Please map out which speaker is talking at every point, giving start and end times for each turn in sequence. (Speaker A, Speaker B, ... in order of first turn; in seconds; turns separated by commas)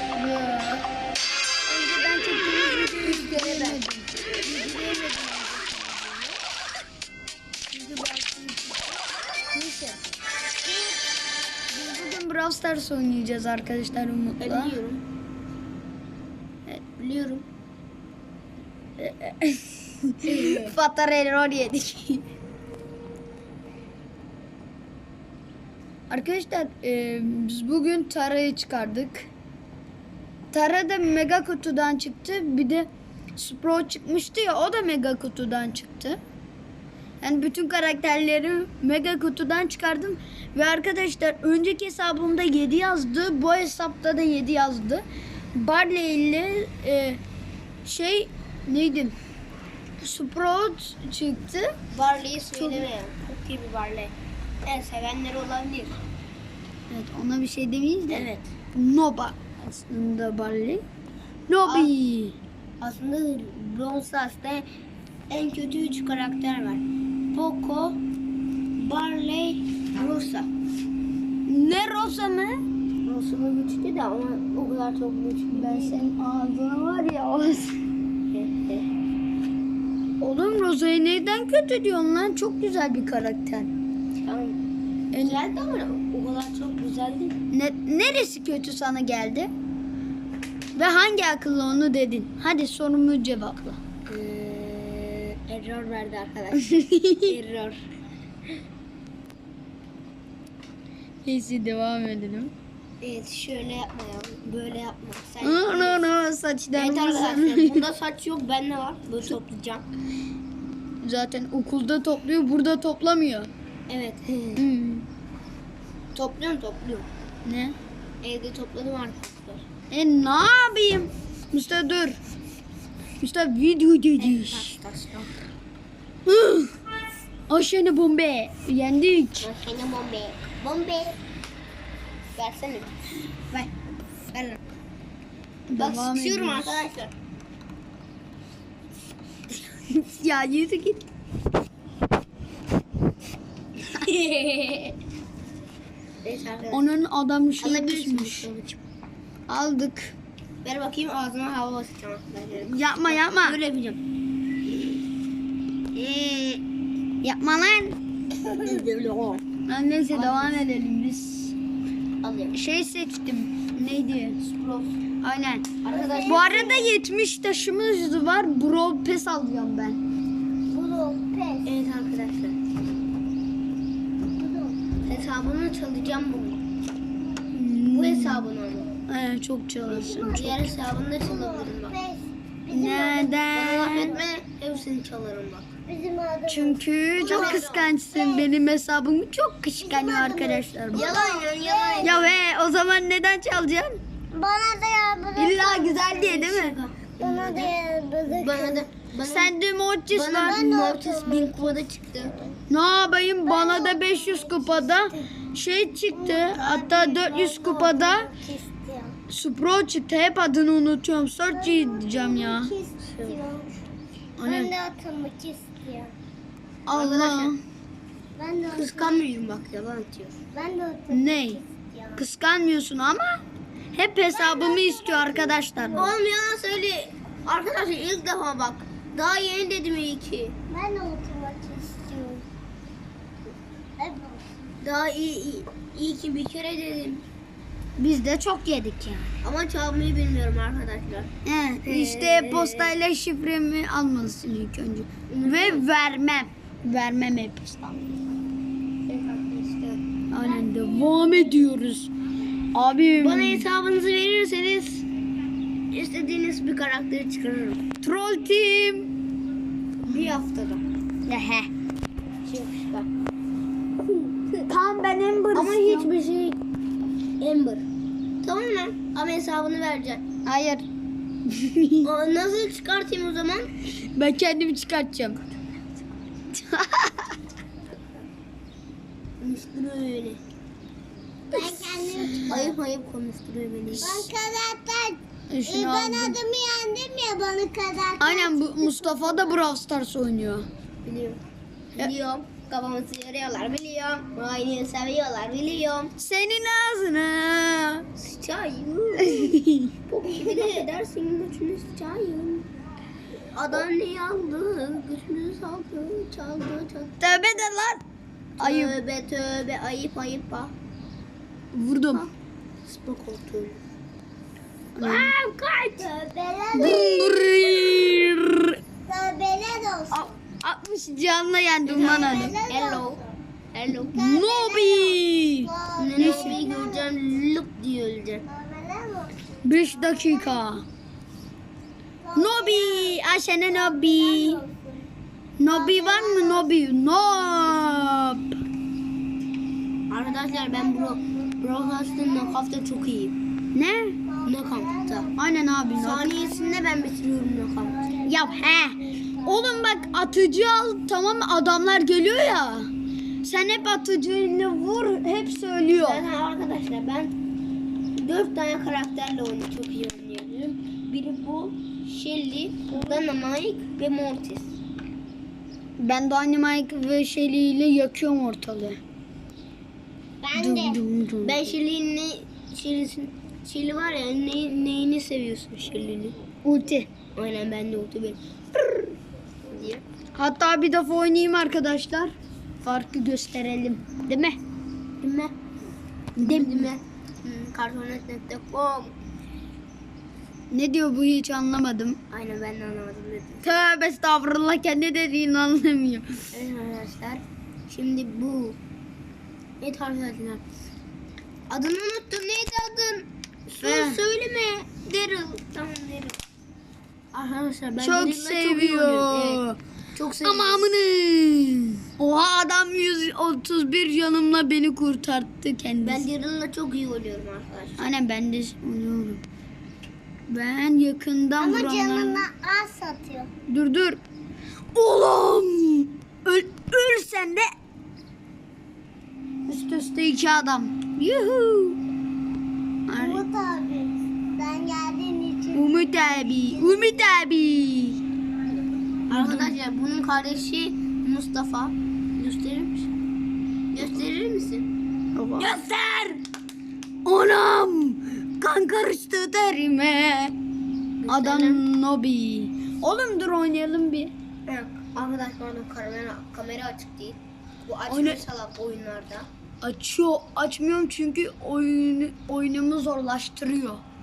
Speaker A: 0.1-0.8, Speaker A: 1.6-6.4, Speaker B: 3.0-3.8, Speaker A: 7.7-9.0, Speaker A: 9.5-10.0, Speaker A: 11.7-14.8, Speaker B: 14.4-15.0, Speaker B: 17.0-17.4, Speaker A: 19.0-22.2, Speaker B: 20.2-20.7, Speaker A: 26.1-29.3, Speaker A: 30.5-36.2, Speaker A: 37.2-45.0, Speaker A: 45.5-47.2, Speaker A: 47.8-49.1, Speaker A: 50.0-51.8, Speaker B: 51.9-54.1, Speaker A: 52.5-52.9, Speaker B: 54.6-56.0, Speaker A: 56.9-60.8, Speaker B: 58.1-58.5, Speaker A: 61.5-62.4, Speaker B: 61.6-61.9, Speaker B: 62.8-64.7, Speaker B: 65.3-68.0, Speaker B: 68.8-70.5, Speaker A: 71.5-72.6, Speaker B: 73.0-76.0, Speaker A: 75.5-77.8, Speaker B: 78.3-78.9, Speaker A: 80.2-83.7, Speaker B: 84.2-84.6, Speaker A: 85.1-85.4, Speaker B: 85.2-87.3, Speaker A: 87.5-89.5, Speaker A: 90.7-93.8, Speaker B: 94.1-97.8, Speaker A: 96.7-97.2, Speaker A: 101.2-102.5, Speaker B: 103.0-106.1, Speaker A: 105.4-107.8, Speaker B: 106.7-109.8, Speaker A: 111.0-113.5, Speaker B: 113.9-114.6, Speaker A: 114.5-115.0, Speaker B: 116.1-117.1, Speaker A: 117.4-117.8, Speaker B: 118.2-119.6, Speaker A: 119.9-122.2, Speaker A: 123.2-124.8, Speaker B: 124.2-125.3, Speaker A: 126.2-126.7, Speaker A: 127.5-129.5, Speaker B: 129.4-131.2, Speaker B: 132.3-133.7, Speaker B: 134.3-134.6, Speaker A: 135.7-136.8, Speaker B: 135.8-137.1, Speaker A: 139.5-141.1, Speaker B: 143.9-144.9, Speaker B: 146.2-146.9, Speaker A: 146.7-148.4, Speaker B: 147.6-148.8, Speaker A: 149.5-150.1, Speaker B: 150.6-154.0, Speaker A: 152.6-153.6, Speaker B: 155.9-156.6, Speaker A: 157.2-158.0, Speaker B: 158.5-159.4, Speaker A: 159.7-161.6, Speaker B: 160.1-160.6, Speaker B: 162.2-162.5, Speaker A: 162.5-164.4, Speaker B: 164.4-165.0, Speaker A: 165.2-165.7, Speaker B: 165.8-166.6, Speaker C: 165.9-166.9, Speaker A: 166.2-170.0, Speaker C: 170.7-171.7, Speaker B: 171.6-172.6, Speaker C: 174.4-174.9, Speaker B: 175.0-176.6, Speaker A: 177.5-178.5, Speaker B: 177.9-178.9, Speaker A: 179.1-180.5, Speaker C: 179.8-184.2, Speaker B: 180.3-181.9, Speaker A: 182.7-184.1, Speaker B: 182.9-185.7, Speaker C: 185.9-188.5, Speaker A: 186.5-191.2, Speaker B: 187.2-187.9, Speaker C: 189.8-192.2, Speaker B: 190.9-192.3, Speaker A: 192.0-194.0, Speaker C: 194.3-196.1, Speaker A: 195.3-196.8, Speaker B: 196.1-197.7, Speaker C: 197.2-198.9, Speaker B: 198.2-199.5, Speaker A: 199.2-200.6, Speaker B: 200.1-202.4, Speaker C: 200.4-202.3, Speaker A: 202.7-208.3, Speaker C: 203.4-205.3, Speaker C: 206.1-209.1, Speaker A: 209.3-212.7, Speaker C: 211.5-213.7, Speaker B: 213.1-213.4, Speaker A: 214.4-214.7, Speaker C: 214.4-216.1, Speaker A: 216.8-217.6, Speaker B: 216.9-217.5, Speaker C: 218.3-219.2, Speaker B: 218.7-220.4, Speaker C: 220.5-222.2, Speaker A: 221.1-221.6, Speaker A: 222.2-223.4, Speaker A: 223.9-226.1, Speaker C: 224.3-226.2, Speaker B: 225.9-230.5, Speaker C: 230.7-232.4, Speaker C: 234.0-234.6, Speaker B: 234.8-237.2, Speaker A: 238.0-239.3, Speaker B: 239.4-241.3, Speaker A: 241.4-248.2, Speaker B: 241.8-242.9, Speaker B: 245.3-245.8, Speaker B: 249.1-250.0, Speaker A: 250.3-252.1, Speaker A: 252.7-253.6, Speaker B: 253.2-255.0, Speaker B: 255.9-257.8, Speaker A: 258.0-259.1, Speaker B: 260.0-260.8, Speaker A: 261.2-261.7, Speaker B: 262.4-263.1, Speaker A: 264.6-266.1, Speaker B: 265.5-266.6, Speaker B: 267.4-267.8, Speaker B: 268.4-270.2, Speaker A: 270.4-270.9, Speaker A: 271.5-272.1, Speaker B: 272.0-273.7, Speaker A: 274.1-275.4, Speaker A: 276.5-277.3, Speaker B: 279.4-280.4, Speaker C: 281.5-282.7, Speaker A: 281.5-282.7, Speaker B: 282.5-284.3, Speaker C: 283.9-289.6, Speaker A: 285.5-286.4, Speaker A: 288.2-290.6, Speaker B: 291.0-291.4, Speaker B: 291.9-296.1, Speaker A: 296.2-298.0, Speaker B: 298.2-299.6, Speaker A: 299.3-299.9, Speaker B: 300.1-302.6, Speaker B: 303.5-307.6, Speaker A: 307.2-308.0, Speaker B: 308.6-310.7, Speaker A: 308.6-308.9, Speaker A: 311.7-312.2, Speaker B: 312.9-313.8, Speaker A: 314.9-315.3, Speaker B: 315.0-316.1, Speaker C: 316.0-317.4, Speaker A: 316.7-318.8, Speaker C: 319.1-320.4, Speaker A: 320.1-322.5, Speaker B: 321.9-323.2, Speaker C: 322.0-323.4, Speaker B: 323.7-324.1, Speaker A: 324.1-326.6, Speaker C: 324.1-327.1, Speaker B: 325.9-328.4, Speaker C: 328.4-330.6, Speaker A: 329.6-330.8, Speaker C: 332.2-335.1, Speaker A: 332.3-334.6, Speaker A: 335.6-338.5, Speaker C: 335.6-336.7, Speaker B: 340.1-343.3, Speaker C: 340.2-342.6, Speaker A: 343.7-344.2, Speaker C: 344.3-347.1, Speaker B: 344.4-345.3, Speaker A: 345.3-346.3, Speaker B: 345.9-348.0, Speaker C: 347.8-350.4, Speaker A: 348.2-352.9, Speaker A: 353.4-356.2, Speaker B: 355.9-357.3, Speaker B: 358.1-364.8, Speaker A: 366.0-369.0, Speaker C: 370.4-371.0, Speaker A: 370.5-371.7, Speaker B: 371.4-376.3, Speaker A: 376.6-377.1, Speaker B: 377.3-379.1, Speaker B: 379.7-380.0, Speaker A: 380.4-384.6, Speaker B: 385.2-385.5, Speaker A: 386.4-386.9, Speaker B: 386.4-389.1, Speaker A: 390.7-392.2, Speaker B: 392.3-393.9, Speaker A: 393.6-396.3, Speaker B: 396.5-398.8, Speaker B: 399.8-400.6, Speaker B: 401.7-406.4, Speaker A: 403.8-404.2, Speaker B: 407.3-409.6, Speaker A: 408.0-409.8, Speaker B: 410.1-410.9, Speaker A: 410.4-416.2, Speaker B: 416.0-418.1, Speaker A: 418.0-419.4, Speaker A: 420.5-422.4, Speaker C: 421.6-423.5, Speaker A: 423.7-424.2, Speaker A: 424.9-427.7, Speaker A: 429.7-432.0, Speaker A: 433.1-433.4, Speaker C: 433.1-437.4, Speaker A: 435.7-438.2, Speaker A: 439.3-439.7, Speaker B: 439.3-443.1, Speaker B: 443.9-445.8, Speaker A: 445.4-446.4, Speaker A: 447.2-450.5, Speaker B: 451.2-451.8, Speaker A: 451.3-454.3, Speaker B: 454.7-459.5, Speaker A: 458.1-458.4, Speaker A: 459.8-464.0